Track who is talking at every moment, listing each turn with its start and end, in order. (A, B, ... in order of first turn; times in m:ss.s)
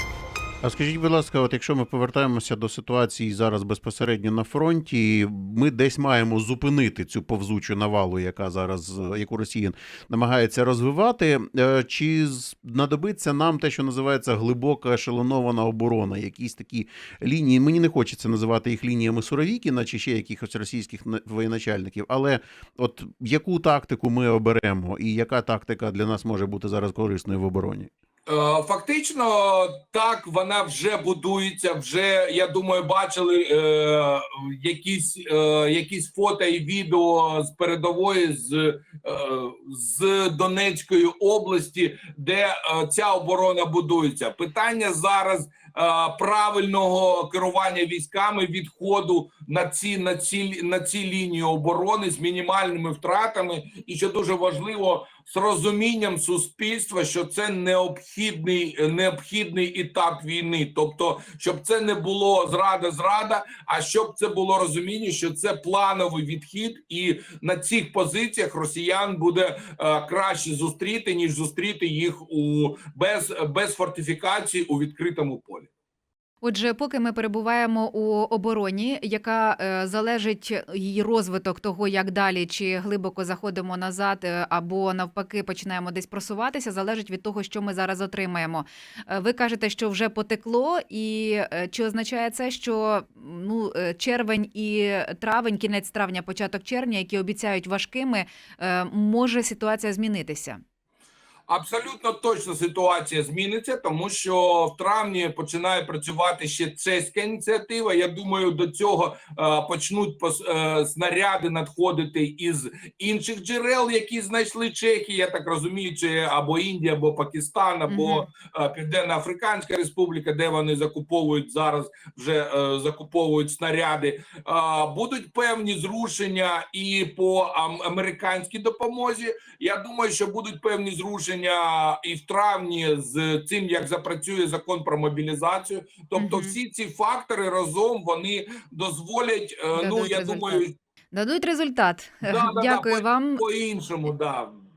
0:00.6-0:27.9 A
0:28.3-1:15.7 B
1:16.4-1:40.6 C
1:41.5-2:20.7 B
1:57.9-1:58.3 C
2:16.2-2:16.5 C
2:19.7-2:23.4 C
2:22.2-2:24.6 B